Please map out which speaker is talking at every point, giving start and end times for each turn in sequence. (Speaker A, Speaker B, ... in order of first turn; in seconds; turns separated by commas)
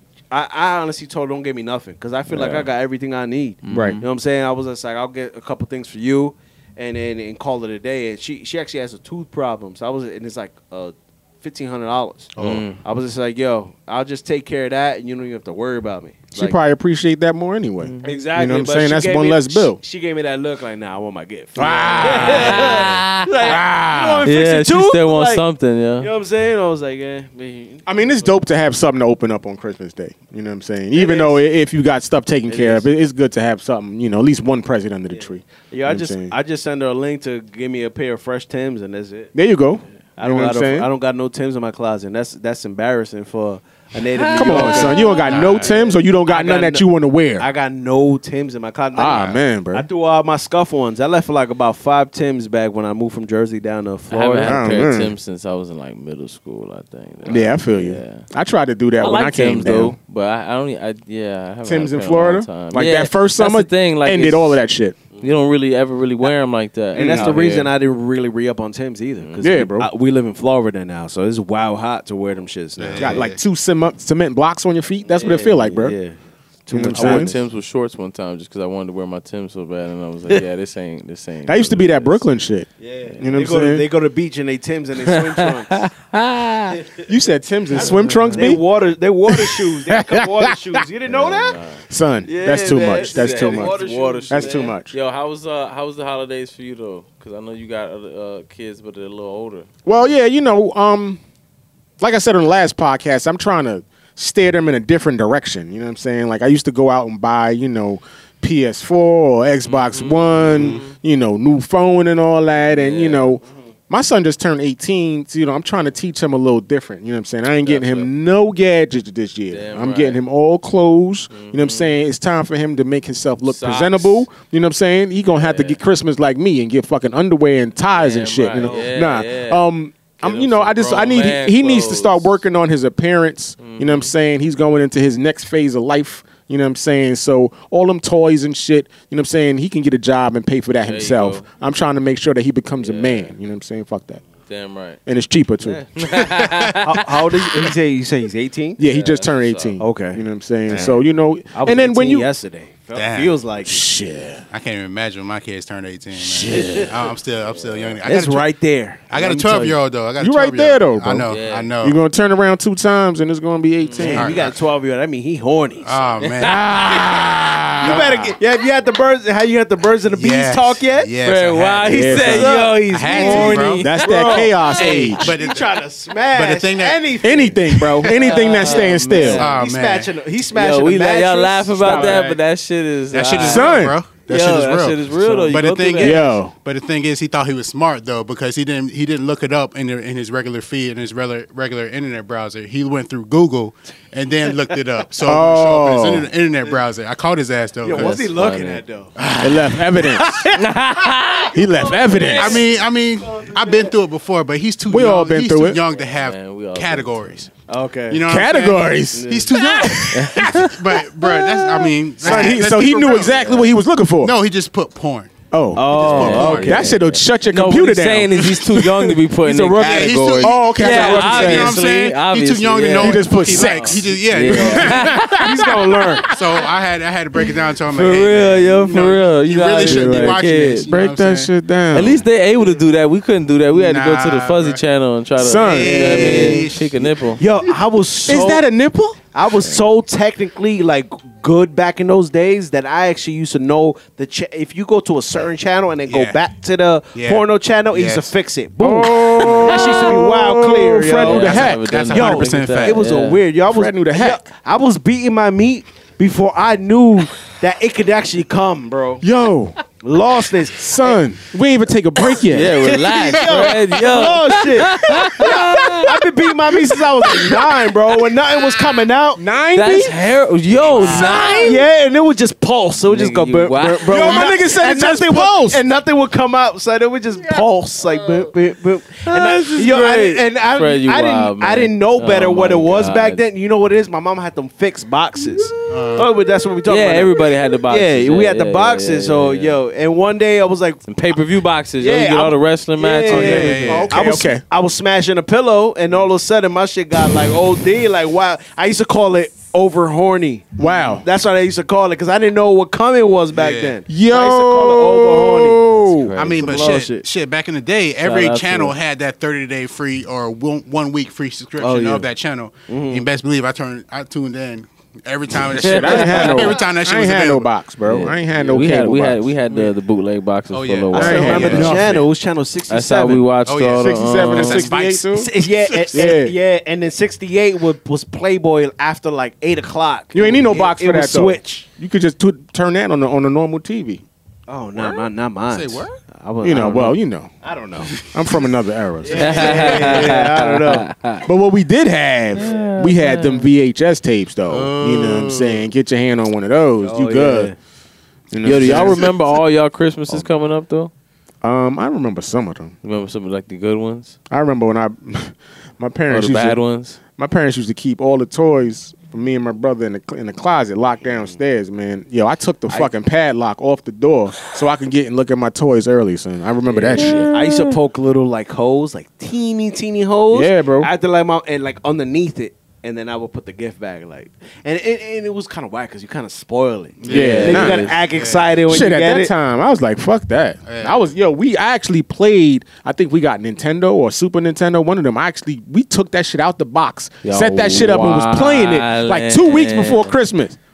Speaker A: 0.3-16.6, Speaker B: 2.3-2.7, Speaker B: 3.7-4.0, Speaker C: 3.7-4.0, Speaker D: 12.4-12.6, Speaker B: 12.4-12.8, Speaker C: 16.3-19.8, Speaker B: 17.8-18.1, Speaker A: 18.0-25.4, Speaker C: 21.6-22.9, Speaker B: 22.0-23.5, Speaker C: 23.4-24.3, Speaker B: 24.2-26.1, Speaker A: 26.0-28.3, Speaker C: 27.9-36.4, Speaker A: 30.9-31.4, Speaker A: 32.5-32.9, Speaker A: 35.1-39.3, Speaker C: 39.3-40.9, Speaker A: 40.2-46.9, Speaker B: 44.2-45.5, Speaker C: 44.3-47.5, Speaker D: 45.3-45.7, Speaker A: 47.4-54.8, Speaker C: 49.0-49.9, Speaker B: 54.1-58.2, Speaker C: 54.4-55.1, Speaker C: 57.3-60.0, Speaker B: 59.0-64.6, Speaker C: 61.6-65.0, Speaker B: 65.2-67.7, Speaker A: 67.0-73.3, Speaker B: 69.2-69.5, Speaker C: 69.4-69.9, Speaker D: 72.8-73.4, Speaker C: 73.0-76.0, Speaker A: 75.2-77.5, Speaker C: 76.7-77.3, Speaker B: 77.0-82.2, Speaker C: 81.5-83.8, Speaker A: 82.8-85.9, Speaker B: 85.1-86.8, Speaker C: 87.1-88.6, Speaker A: 87.7-91.6, Speaker B: 87.8-88.5, Speaker C: 89.3-90.8, Speaker B: 91.1-91.8, Speaker C: 91.9-93.7, Speaker A: 92.2-94.8, Speaker B: 93.0-99.7, Speaker C: 94.3-95.0, Speaker C: 99.8-101.2, Speaker C: 102.0-144.2, Speaker B: 109.7-110.9, Speaker D: 110.5-110.8, Speaker B: 112.7-113.4, Speaker B: 117.6-118.1, Speaker B: 119.5-120.2, Speaker B: 121.3-121.9, Speaker B: 123.4-124.2, Speaker B: 125.3-125.8, Speaker B: 127.9-129.6, Speaker A: 128.6-128.9, Speaker B: 130.2-132.4, Speaker B: 133.6-134.1, Speaker B: 140.9-141.5, Speaker B: 142.8-143.3, Speaker B: 144.5-145.0, Speaker C: 145.1-145.8, Speaker B: 145.6-147.7, Speaker D: 146.1-146.8, Speaker A: 146.8-148.8, Speaker C: 148.8-152.3, Speaker B: 148.8-149.8, Speaker A: 149.8-153.9, Speaker D: 152.9-153.3, Speaker C: 153.7-154.4, Speaker D: 154.5-158.5, Speaker C: 156.2-156.8, Speaker B: 156.5-156.9, Speaker A: 156.5-156.8, Speaker B: 157.5-158.0, Speaker A: 158.0-159.8, Speaker D: 159.1-162.0, Speaker C: 160.2-164.4, Speaker B: 161.3-161.8, Speaker B: 163.8-164.2, Speaker A: 164.0-166.0, Speaker D: 164.2-164.6, Speaker D: 165.8-167.1, Speaker B: 166.2-166.8, Speaker C: 166.4-168.3, Speaker D: 167.8-168.2, Speaker A: 167.8-171.1, Speaker D: 170.1-173.8, Speaker B: 171.2-174.8, Speaker C: 171.9-172.5, Speaker A: 172.1-182.4, Speaker C: 173.1-175.3, Speaker D: 174.8-175.8, Speaker D: 176.3-177.0, Speaker C: 177.2-179.5, Speaker B: 178.0-179.5, Speaker D: 179.4-180.1, Speaker B: 180.5-186.2, Speaker C: 181.9-182.2, Speaker D: 183.1-198.2, Speaker C: 183.4-184.0, Speaker C: 186.0-186.5, Speaker C: 195.2-196.3, Speaker A: 197.8-199.2, Speaker B: 197.9-198.8, Speaker C: 199.4-200.5, Speaker A: 200.0-204.0, Speaker B: 200.5-201.5, Speaker C: 201.5-202.6, Speaker D: 202.4-207.5, Speaker C: 204.9-205.8, Speaker B: 206.2-207.4, Speaker A: 207.7-208.3, Speaker D: 208.1-213.6, Speaker C: 208.3-214.3, Speaker A: 209.1-209.6, Speaker B: 210.1-210.7, Speaker B: 213.1-213.6, Speaker D: 214.2-215.4, Speaker C: 215.5-218.9, Speaker A: 215.8-216.9, Speaker D: 215.9-216.8, Speaker B: 215.9-225.7, Speaker A: 219.4-220.1, Speaker D: 219.8-225.4, Speaker C: 220.4-221.8, Speaker C: 223.0-226.3, Speaker A: 225.2-226.2, Speaker D: 226.3-231.5, Speaker B: 227.9-230.9, Speaker C: 229.8-232.2, Speaker B: 231.9-237.4, Speaker D: 233.7-234.8, Speaker C: 235.4-236.4, Speaker D: 235.6-237.4, Speaker A: 235.8-236.6, Speaker A: 237.4-238.6, Speaker C: 238.3-239.2, Speaker A: 239.3-259.2, Speaker D: 246.1-246.4, Speaker D: 247.1-248.3, Speaker C: 248.8-251.9, Speaker B: 251.2-253.4, Speaker D: 251.5-253.0, Speaker C: 253.7-254.4, Speaker C: 259.2-259.8, Speaker A: 260.0-261.2, Speaker C: 260.8-262.9, Speaker B: 262.5-266.1, Speaker A: 262.8-269.4, Speaker C: 265.2-270.1, Speaker B: 269.8-271.8, Speaker A: 270.8-291.1, Speaker C: 270.9-271.8, Speaker B: 273.1-274.5, Speaker C: 274.0-275.8, Speaker B: 279.2-283.4, Speaker D: 285.9-286.3, Speaker B: 286.9-289.8, Speaker B: 291.1-294.1, Speaker A: 292.0-305.9, Speaker C: 293.3-294.6, Speaker D: 293.4-294.1, Speaker C: 300.8-301.2, Speaker D: 303.5-304.0, Speaker C: 304.1-306.3, Speaker B: 306.1-306.9, Speaker D: 306.4-317.7, Speaker A: 306.5-307.2, Speaker B: 308.2-309.0, Speaker A: 311.8-312.3, Speaker A: 312.9-313.3, Speaker B: 315.7-316.7, Speaker C: 315.8-319.4, Speaker B: 318.1-321.9, Speaker D: 320.7-322.2, Speaker C: 321.1-322.2, Speaker A: 321.1-323.5, Speaker B: 322.9-324.9, Speaker D: 323.6-326.2, Speaker C: 324.0-325.5, Speaker A: 325.3-331.9, Speaker C: 326.1-326.6, Speaker C: 330.3-334.2, Speaker A: 334.7-338.1, Speaker D: 335.0-336.2, Speaker C: 336.6-337.5, Speaker C: 338.2-340.0, Speaker A: 339.2-341.1, Speaker B: 339.3-341.4, Speaker C: 341.5-347.7, Speaker B: 342.6-343.7, Speaker D: 344.7-345.8, Speaker A: 347.0-347.8, Speaker C: 348.5-349.2, Speaker B: 348.6-351.1, Speaker C: 351.6-352.9, Speaker B: 353.0-354.4, Speaker C: 354.5-356.8, Speaker B: 356.3-357.2, Speaker C: 357.4-367.5, Speaker A: 366.9-379.5, Speaker B: 367.2-367.9, Speaker C: 370.5-371.1, Speaker D: 377.2-378.7, Speaker C: 377.3-378.1, Speaker B: 377.3-378.2, Speaker C: 378.9-390.8, Speaker D: 380.9-381.2, Speaker B: 387.4-390.4